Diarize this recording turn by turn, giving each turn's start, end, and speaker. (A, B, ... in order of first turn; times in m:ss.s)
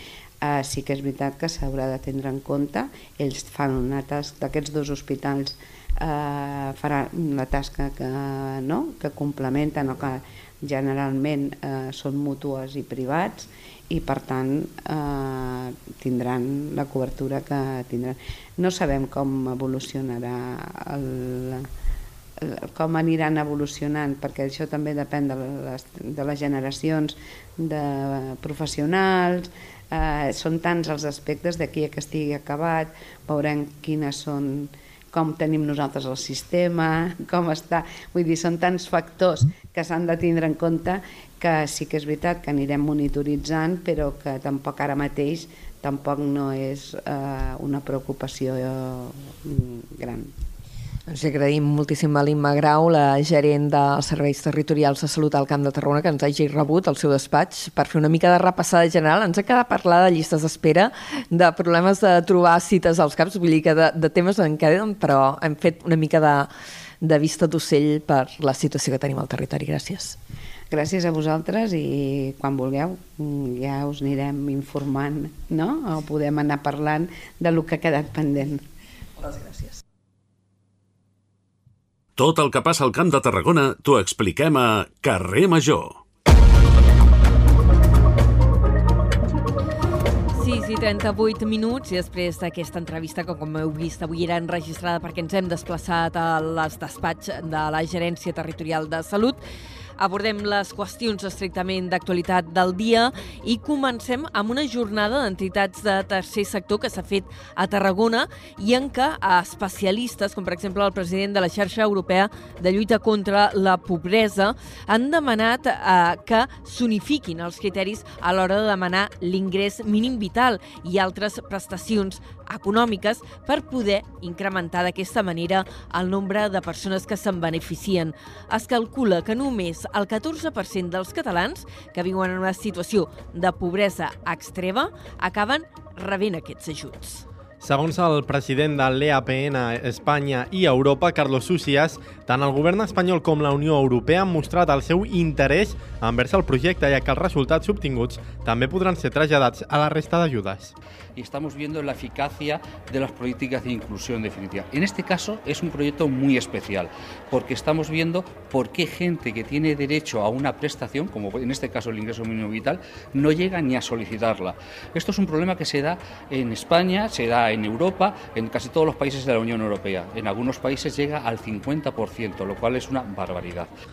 0:00.4-0:21.7 A
0:22.4-0:50.3 A
0:51.1-1:06.5 B
1:07.0-1:10.2 B
1:10.7-1:18.6 A
1:22.2-1:26.0 C
1:30.4-1:39.4 B
1:40.0-2:17.2 B
2:17.6-2:30.7 D
2:31.2-2:53.7 E